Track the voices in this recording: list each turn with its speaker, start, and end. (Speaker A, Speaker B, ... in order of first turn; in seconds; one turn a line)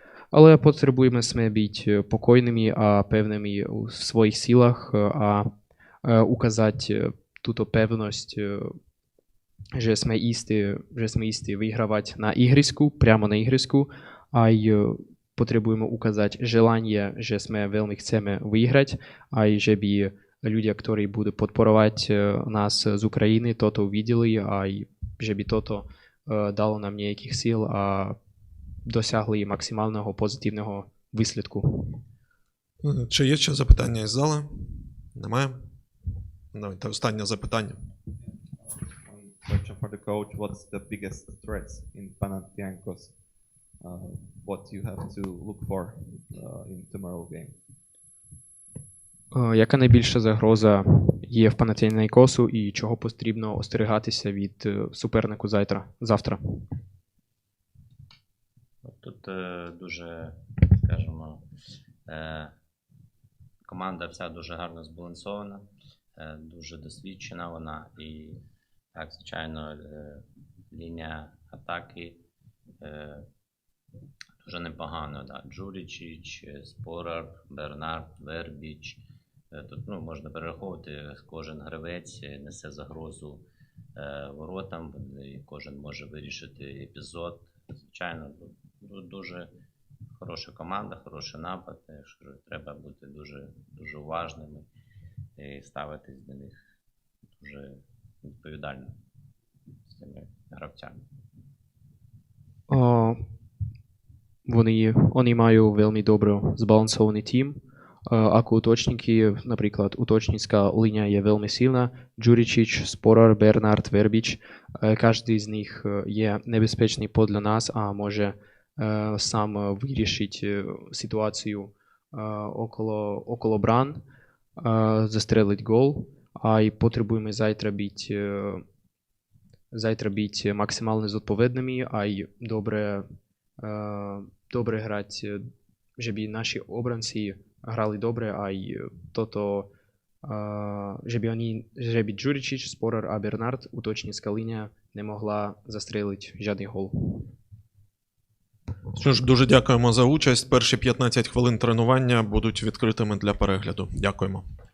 Speaker A: 0.3-5.5
Speaker A: 6.0-8.8
Speaker A: 9.8-28.2
Speaker A: 28.9-32.0
Speaker B: 32.8-35.6
Speaker B: 36.5-37.8
Speaker C: 38.2-43.1
Speaker C: 43.8-47.6
Speaker A: 49.3-56.6
Speaker D: 58.8-61.4
Speaker D: 62.1-62.5
Speaker D: 63.6-68.4
Speaker D: 69.0-72.2
Speaker D: 72.8-73.3
Speaker D: 74.4-83.4
Speaker D: 84.0-89.5
Speaker D: 90.2-94.7
Speaker D: 95.4-96.6
Speaker D: 97.4-99.0
Speaker D: 99.9-101.0
Speaker A: 102.7-103.2
Speaker A: 104.5-124.0
Speaker A: 124.6-128.6
Speaker A: 129.7-133.1
Speaker A: 133.6-135.5
Speaker A: 136.0-139.7
Speaker A: 140.2-147.3
Speaker B: 148.9-154.4